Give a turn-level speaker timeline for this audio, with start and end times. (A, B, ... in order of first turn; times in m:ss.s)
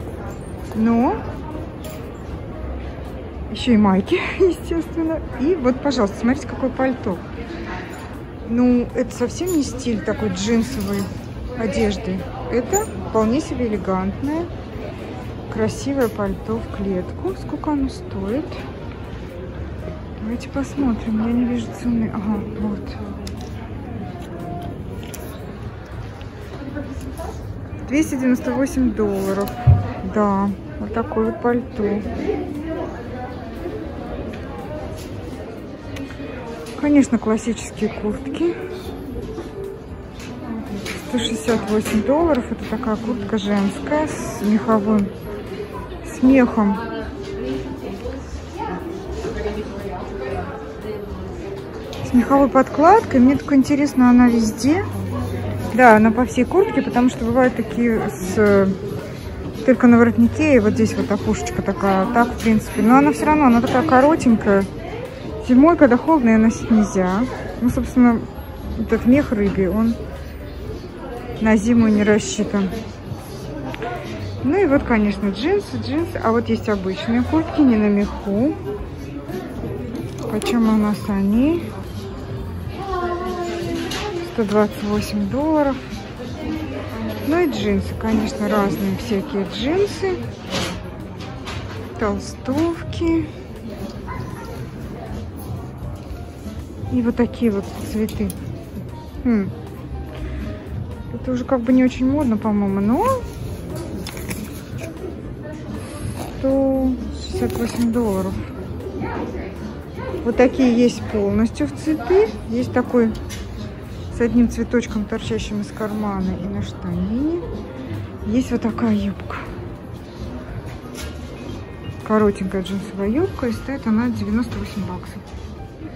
0:00.7-0:01.2 A
0:03.5-0:07.2 A
0:08.5-0:14.5 A
0:15.5-0:18.6 A
0:20.2-0:23.0 A
0:27.9-0:32.1 A
0:36.8-0:38.6 A
0:40.9-0:45.1 A
0:46.0-0:46.8 A
0:52.0-0:54.9 A
0:55.7-0:58.8 A
0:59.6-1:04.7 A
1:05.4-1:10.0 A
1:11.4-1:12.8 A
1:14.4-1:18.6 A
1:20.3-1:21.7 A
1:24.2-1:25.8 A
1:27.2-1:30.2 A
1:32.0-1:33.3 A
1:36.9-1:38.3 A
1:39.2-1:39.5 A
1:41.1-1:43.2 A
1:46.4-1:48.4 A
1:50.2-1:53.2 A
1:54.1-1:57.5 A
1:58.2-1:59.5 A
2:02.0-2:05.2 A